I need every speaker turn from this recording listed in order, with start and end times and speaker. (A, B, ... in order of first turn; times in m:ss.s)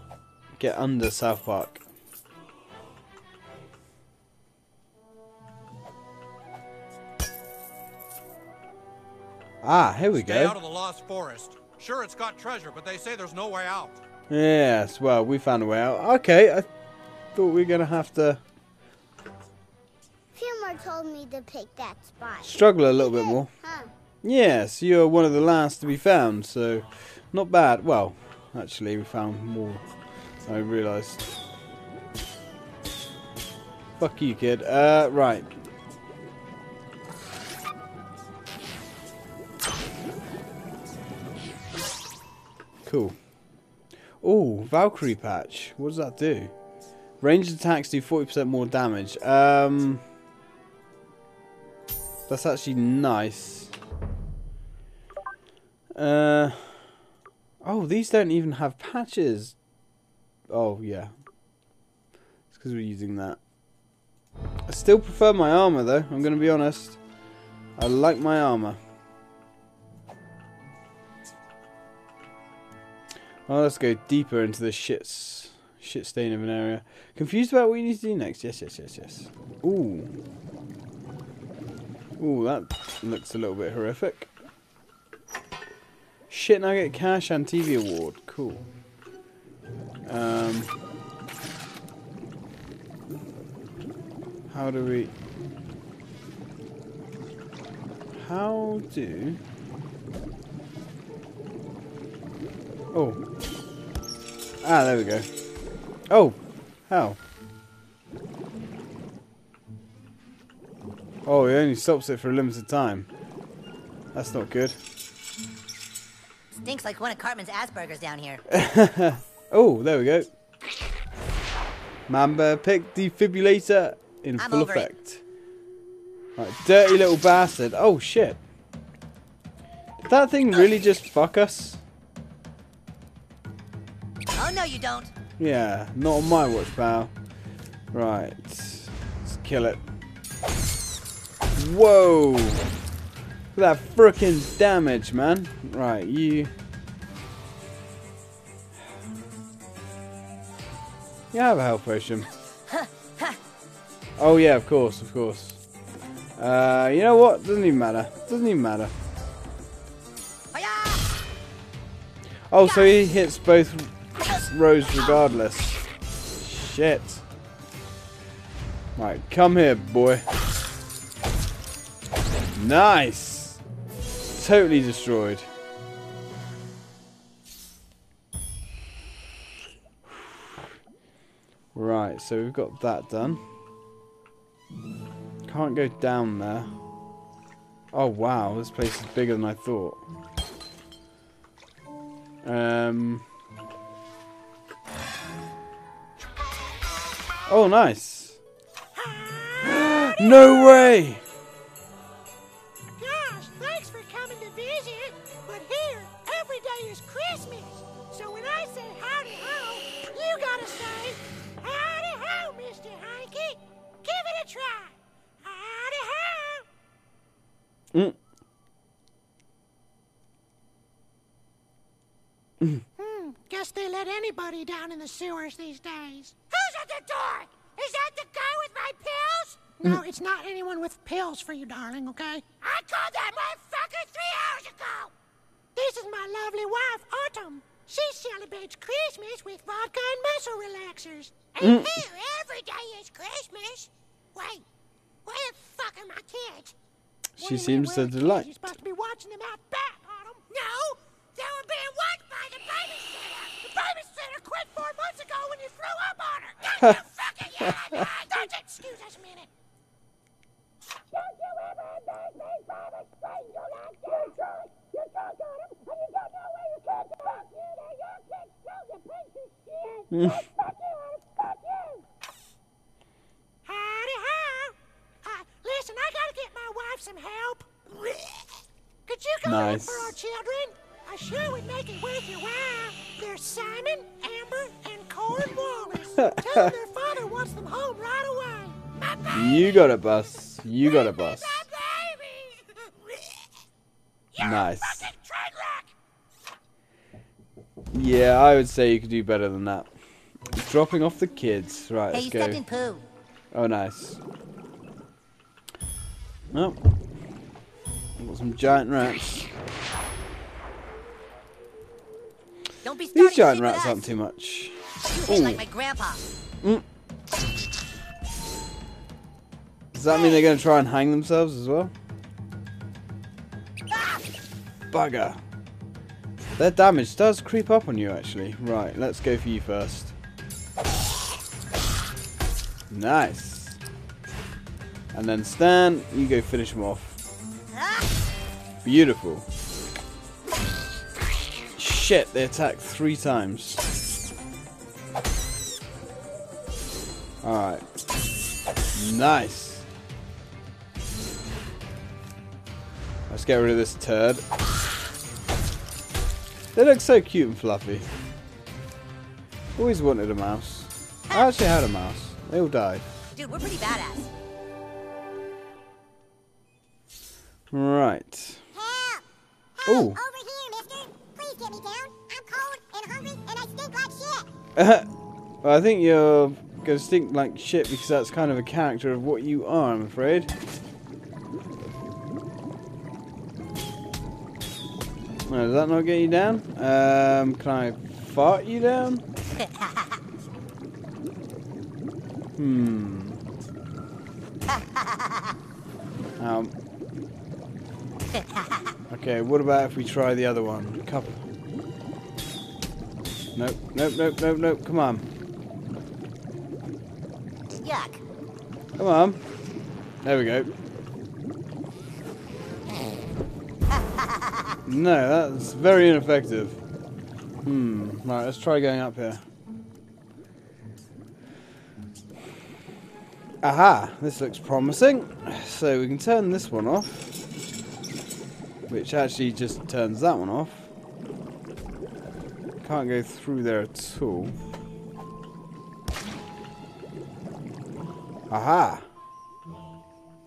0:00.6-0:01.8 A
0:09.6-0:10.6 A
0:10.2-0:14.0 B
0:14.3-0:16.7 A
0:17.3-0:18.4 A
0:20.3-0:23.9 C
0:22.4-0:23.5 A
0:24.2-0:29.8 A
0:30.5-0:31.2 A
0:34.0-0:35.5 A
0:42.8-0:43.2 A
0:44.2-0:46.5 A
0:47.2-0:50.0 A
0:52.3-0:53.7 A
0:55.9-0:56.9 A
0:57.6-0:59.5 A
1:00.5-1:01.1 A
1:02.5-1:03.4 A
1:04.7-1:07.0 A
1:07.8-1:08.8 A
1:13.5-1:20.1 A
1:22.2-1:24.3 A
1:26.3-1:28.6 A
1:30.0-1:30.7 A
1:34.5-1:35.1 A
1:38.1-1:39.4 A
1:42.9-1:43.2 A
1:44.6-1:45.3 A
1:46.1-1:46.4 A
1:46.9-1:47.2 A
1:51.2-1:53.1 A
1:54.1-1:54.8 A
1:56.6-1:58.4 D
1:58.5-2:00.3 A
2:02.1-2:05.2 A
2:04.4-2:04.9 D
2:06.4-2:08.4 A
2:10.0-2:11.8 A
2:14.4-2:15.1 D
2:15.4-2:17.1 A
2:17.9-2:19.8 A
2:21.6-2:22.6 A
2:23.5-2:26.5 A
2:31.3-2:32.3 A
2:32.7-2:33.4 D
2:34.2-2:35.6 A
2:36.4-2:38.9 A
2:40.5-2:41.1 D
2:42.5-2:45.8 A
2:42.6-2:42.9 D
2:46.4-2:47.2 A
2:49.0-2:50.2 A
2:52.5-2:53.6 A
2:54.3-2:55.5 A
3:01.7-3:03.4 A
3:05.4-3:06.7 A
3:07.9-3:10.0 A
3:12.4-3:13.2 A
3:17.5-3:18.4 A
3:19.0-3:20.9 E
3:19.6-3:21.2 A
3:23.0-3:36.6 E
3:43.0-3:55.1 E
3:55.7-4:04.6 E
4:01.6-4:02.0 A
4:05.2-4:06.7 E
4:07.4-4:08.7 A
4:07.4-4:19.5 E
4:17.6-4:18.1 A
4:21.3-4:32.0 E
4:30.1-4:30.5 A
4:33.6-4:38.3 E
4:39.1-4:49.8 E
4:39.4-4:40.2 A
4:46.2-4:46.7 A
4:49.3-4:51.7 A
4:50.8-4:53.2 E
4:54.4-4:55.1 A
4:54.5-4:55.9 E
4:57.9-4:59.9 A
5:00.5-5:02.6 A
5:02.1-5:03.0 D
5:03.5-5:04.2 A
5:06.5-5:06.8 A
5:08.2-5:09.5 A
5:12.8-5:14.0 D
5:13.1-5:15.6 A
5:15.1-5:16.2 D
5:19.9-5:21.9 A
5:20.1-5:20.4 D
5:23.9-5:24.2 D
5:24.9-5:25.4 A
5:26.6-5:30.1 A
5:32.9-5:33.8 A
5:35.1-5:37.2 A
5:37.8-5:38.0 D
5:38.8-5:39.4 A
5:41.8-5:43.8 A
5:47.4-5:47.8 A
5:49.0-5:49.8 A
5:53.3-5:54.4 A
5:56.7-5:58.1 A
5:59.8-6:03.1 A
6:03.3-6:04.3 D
6:07.7-6:08.6 A
6:08.7-6:09.2 C
6:09.8-6:14.5 C
6:09.8-6:10.2 A
6:14.8-6:15.1 A
6:15.6-6:20.5 A
6:25.5-6:29.2 A
6:29.6-6:30.2 D
6:32.6-6:33.4 A
6:34.7-6:35.5 D
6:36.4-6:36.7 A
6:38.3-6:38.9 D
6:39.1-6:41.4 A
6:43.6-6:45.3 A
6:47.7-6:48.2 D
6:49.0-6:49.4 A
6:50.2-6:50.7 A
6:53.9-6:54.7 D
6:54.8-6:56.8 A
6:57.6-6:59.4 A
7:03.6-7:07.3 A
7:08.9-7:10.9 A
7:12.8-7:14.6 A
7:18.5-7:19.0 A